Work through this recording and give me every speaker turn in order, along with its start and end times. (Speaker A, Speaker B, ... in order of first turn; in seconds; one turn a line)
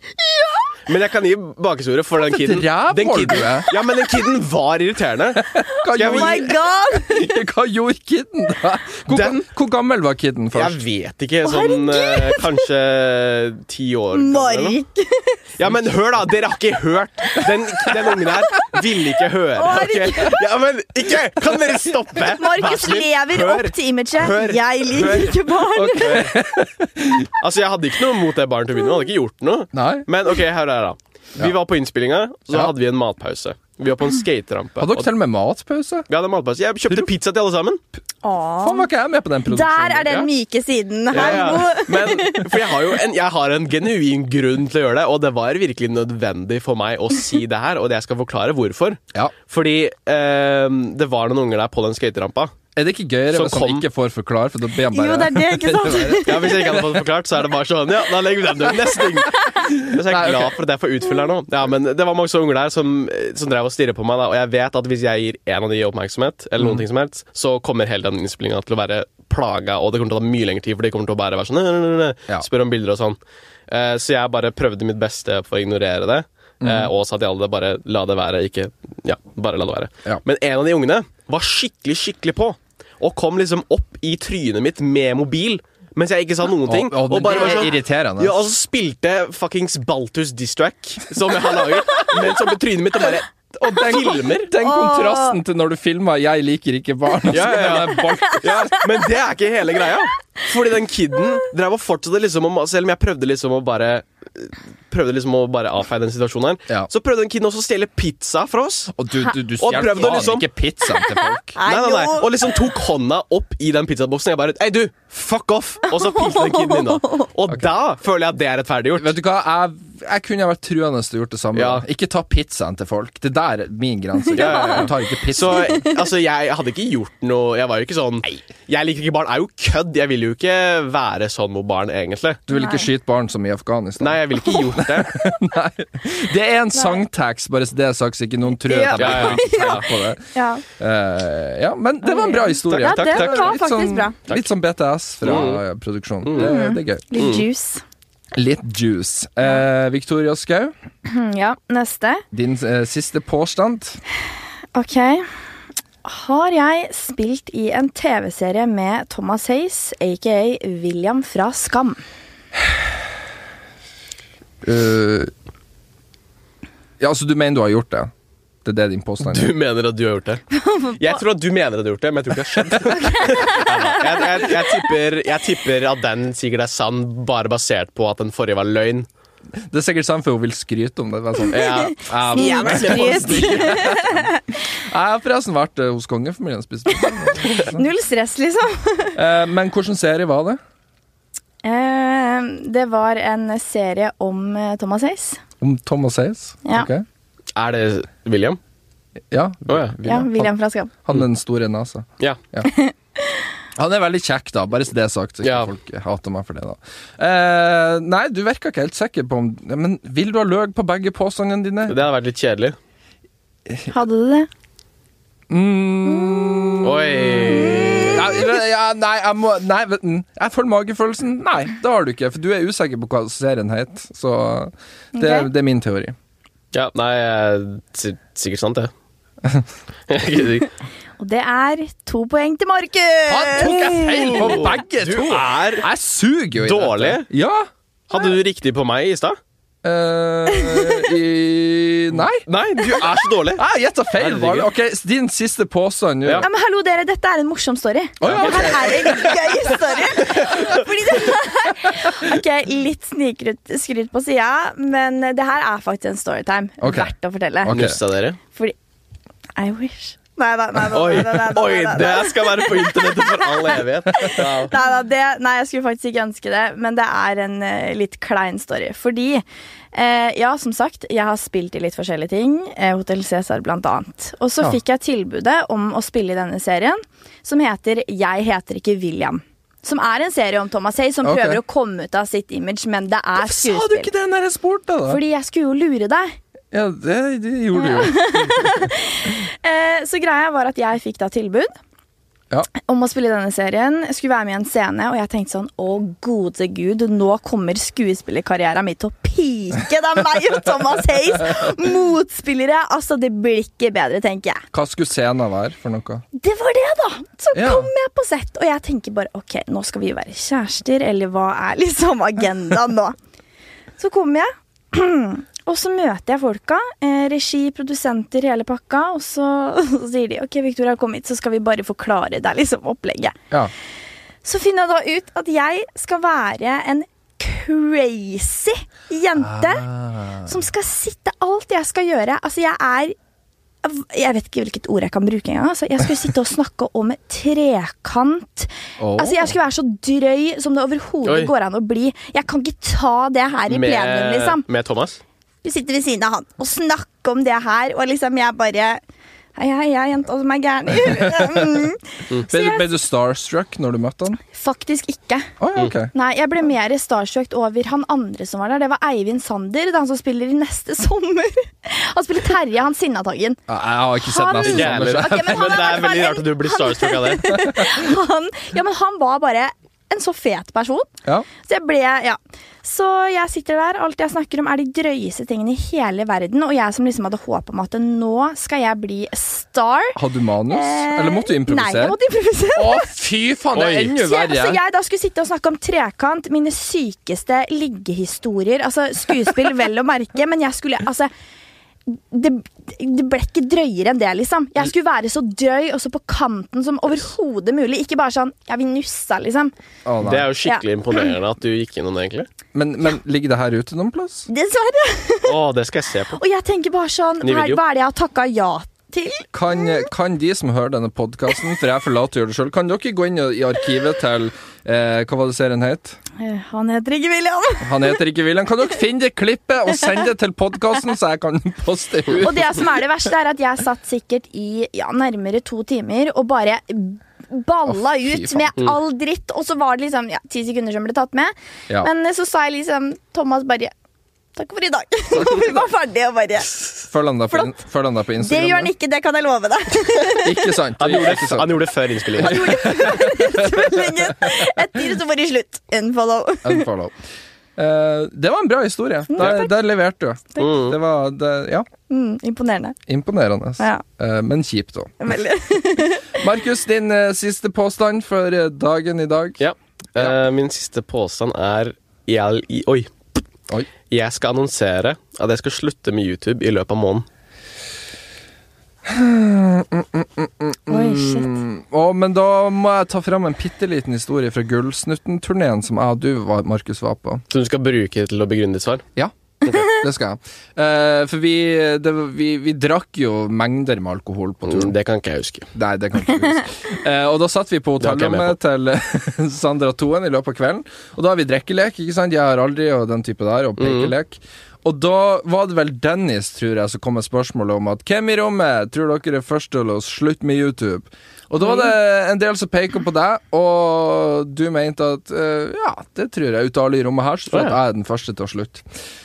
Speaker A: 0.2-0.7
Speaker B: 0.9-6.5
Speaker C: 2.2-3.7
Speaker C: 5.4-10.8
Speaker A: 6.1-7.4
Speaker B: 9.1-9.5
Speaker B: 10.5-14.8
Speaker A: 11.4-12.5
Speaker A: 14.1-15.4
Speaker B: 15.6-25.4
Speaker C: 17.9-18.2
Speaker A: 19.6-20.4
Speaker A: 22.4-26.3
Speaker C: 25.7-27.3
Speaker B: 26.0-26.3
Speaker B: 27.4-35.1
Speaker C: 29.7-30.1
Speaker C: 34.8-36.1
Speaker B: 36.1-37.8
Speaker A: 38.2-38.9
Speaker C: 38.6-40.3
Speaker A: 39.5-42.6
Speaker B: 41.1-52.5
Speaker C: 41.1-41.7
Speaker C: 52.8-56.9
Speaker B: 53.3-53.9
Speaker A: 54.9-56.9
Speaker B: 56.2-94.5
Speaker C: 59.6-60.5
Speaker C: 66.6-66.8
Speaker C: 76.6-76.9
Speaker C: 86.7-88.3
Speaker C: 93.6-98.8
Speaker A: 94.6-95.4
Speaker B: 97.3-108.9
Speaker A: 98.0-98.4
Speaker C: 108.9-111.6
Speaker B: 109.6-110.5
Speaker A: 109.8-110.3
Speaker A: 110.8-112.5
Speaker B: 111.6-119.1
Speaker A: 115.9-117.3
Speaker C: 119.0-125.8
Speaker B: 121.5-121.8
Speaker B: 124.3-132.4
Speaker A: 124.4-124.8
Speaker C: 132.5-140.2
Speaker A: 132.5-132.9
Speaker B: 134.0-135.2
Speaker A: 136.8-137.0
Speaker A: 138.6-140.6
Speaker B: 139.0-139.9
Speaker C: 140.8-147.1
Speaker A: 142.0-144.2
Speaker B: 142.7-143.6
Speaker B: 145.2-145.6
Speaker B: 146.2-146.5
Speaker A: 146.4-147.8
Speaker B: 147.2-147.4
Speaker C: 148.3-150.7
Speaker A: 151.1-152.2
Speaker C: 152.3-154.0
Speaker A: 154.7-155.3
Speaker A: 156.0-162.0
Speaker C: 164.6-165.3
Speaker C: 167.0-168.1
Speaker C: 168.7-169.5
Speaker B: 169.2-179.1
Speaker A: 170.5-171.2
Speaker A: 172.9-174.7
Speaker C: 179.7-187.9
Speaker B: 181.5-183.9
Speaker A: 181.5-184.4
Speaker A: 186.9-189.2
Speaker C: 189.2-190.6
Speaker A: 191.6-195.4
Speaker C: 195.6-197.1
Speaker B: 197.6-198.6
Speaker C: 199.3-200.5
Speaker B: 199.7-200.0
Speaker A: 200.0-200.9
Speaker C: 201.0-202.7
Speaker A: 202.6-203.4
Speaker C: 203.8-212.0
Speaker B: 205.4-205.7
Speaker B: 211.9-212.8
Speaker A: 213.9-214.5
Speaker C: 215.5-226.2
Speaker A: 216.1-216.8
Speaker B: 216.8-218.3
Speaker A: 217.5-218.2
Speaker A: 225.2-225.5
Speaker B: 226.7-228.9
Speaker B: 230.1-230.7
Speaker A: 231.2-234.6
Speaker C: 233.3-237.7
Speaker B: 234.1-235.9
Speaker B: 236.6-237.3
Speaker B: 238.1-239.4
Speaker C: 239.8-242.4
Speaker A: 240.5-241.1
Speaker B: 242.2-243.6
Speaker C: 243.6-246.5
Speaker B: 244.2-244.7
Speaker A: 246.4-257.7
Speaker C: 248.2-249.8
Speaker B: 248.2-249.3
Speaker B: 250.2-250.6
Speaker C: 250.3-250.7
Speaker C: 256.8-257.1
Speaker C: 257.6-258.0
Speaker B: 257.7-258.4
Speaker A: 259.6-284.1
Speaker B: 260.9-264.7
Speaker C: 281.2-281.6
Speaker C: 283.4-285.2
Speaker A: 285.1-286.4
Speaker C: 286.7-288.8
Speaker A: 287.8-291.7
Speaker A: 292.8-304.6
Speaker C: 304.7-306.2
Speaker A: 306.4-313.2
Speaker C: 307.5-307.9
Speaker A: 314.0-323.4
Speaker A: 324.4-329.9
Speaker C: 329.4-330.5
Speaker A: 330.5-333.2
Speaker A: 333.8-344.6
Speaker C: 339.0-339.5
Speaker B: 341.2-341.5
Speaker B: 343.7-345.2
Speaker A: 345.6-349.0
Speaker A: 349.6-352.9
Speaker C: 350.9-351.9
Speaker C: 352.5-354.4
Speaker A: 354.5-355.5
Speaker C: 355.6-356.1
Speaker A: 356.1-363.6
Speaker C: 363.7-366.0
Speaker A: 364.2-371.1
Speaker B: 364.6-367.6
Speaker A: 371.6-380.2
Speaker C: 380.2-382.2
Speaker A: 380.7-383.1
Speaker C: 382.8-384.8
Speaker B: 383.7-384.1
Speaker A: 384.1-391.3
Speaker A: 392.1-399.7
Speaker C: 400.1-400.5
Speaker B: 400.2-402.5
Speaker C: 402.7-404.5
Speaker A: 404.5-405.6
Speaker B: 405.5-406.4
Speaker A: 406.4-409.5
Speaker B: 407.4-407.8
Speaker C: 409.5-416.2
Speaker A: 416.4-418.2
Speaker C: 417.8-422.9
Speaker A: 422.4-433.9
Speaker C: 427.9-428.7
Speaker A: 434.6-436.9
Speaker C: 435.3-435.9
Speaker C: 437.1-438.9
Speaker A: 438.4-440.7
Speaker C: 440.4-441.8
Speaker B: 441.0-442.9
Speaker C: 442.4-444.5
Speaker A: 442.4-446.9
Speaker C: 446.6-447.1
Speaker C: 447.8-451.9
Speaker A: 449.3-449.7
Speaker B: 450.6-451.0
Speaker A: 452.1-453.0
Speaker C: 453.1-455.1
Speaker A: 453.8-454.0
Speaker A: 455.2-456.4
Speaker C: 456.3-459.6
Speaker B: 459.6-463.4
Speaker B: 464.1-467.3
Speaker C: 469.1-477.4
Speaker A: 470.9-471.5
Speaker B: 477.5-479.1
Speaker C: 479.2-484.9
Speaker B: 484.7-485.7
Speaker C: 485.7-508.9
Speaker B: 488.0-488.6
Speaker B: 493.8-494.1
Speaker B: 507.5-507.8